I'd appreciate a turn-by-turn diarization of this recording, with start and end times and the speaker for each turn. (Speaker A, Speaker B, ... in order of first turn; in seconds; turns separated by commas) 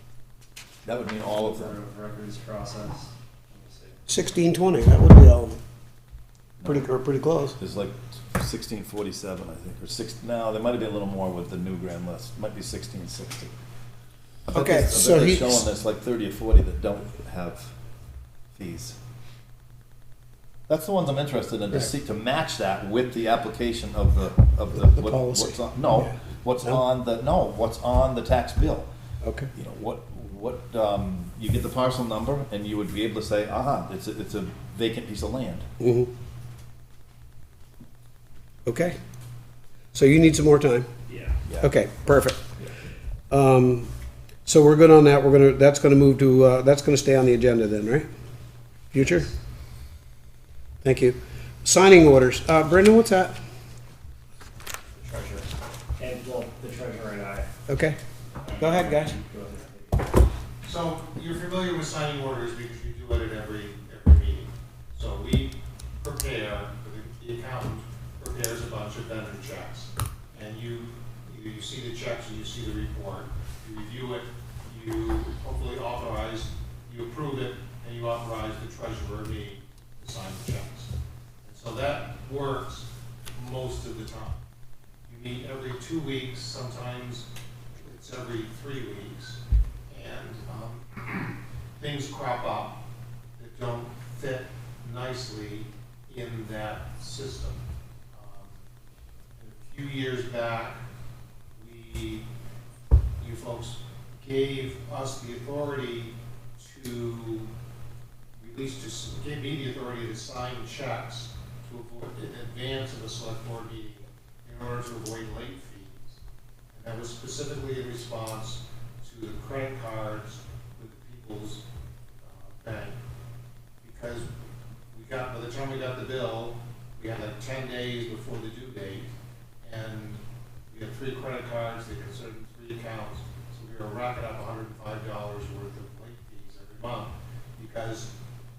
Speaker A: 0.8-1.8, Speaker B: 1.2-4.2, Speaker C: 4.1-5.6, Speaker A: 6.6-6.9, Speaker C: 6.6-7.5, Speaker A: 7.5-13.5, Speaker C: 14.5-15.6, Speaker A: 14.5-17.7, Speaker A: 18.5-19.0, Speaker A: 20.7-28.9, Speaker C: 24.8-26.8, Speaker C: 29.2-29.5, Speaker A: 29.5-35.6, Speaker C: 35.8-36.1, Speaker C: 38.6-39.0, Speaker C: 39.9-40.9, Speaker B: 41.1-41.4, Speaker A: 41.5-41.7, Speaker C: 41.6-42.4, Speaker C: 43.3-43.9, Speaker C: 44.4-48.1, Speaker C: 48.9-49.3, Speaker B: 49.0-49.3, Speaker C: 50.8-53.4, Speaker B: 54.9-57.5, Speaker C: 57.7-58.0, Speaker B: 58.4-60.2, Speaker C: 58.6-59.1, Speaker D: 60.6-80.9, Speaker D: 81.4-84.4, Speaker D: 85.1-87.3, Speaker D: 87.8-92.8, Speaker D: 93.4-98.6, Speaker D: 99.4-100.8, Speaker D: 101.5-102.3, Speaker D: 103.2-107.5, Speaker D: 108.4-116.2, Speaker D: 116.7-121.6, Speaker D: 122.2-123.0, Speaker D: 123.8-124.3, Speaker D: 124.9-129.1, Speaker D: 129.6-138.1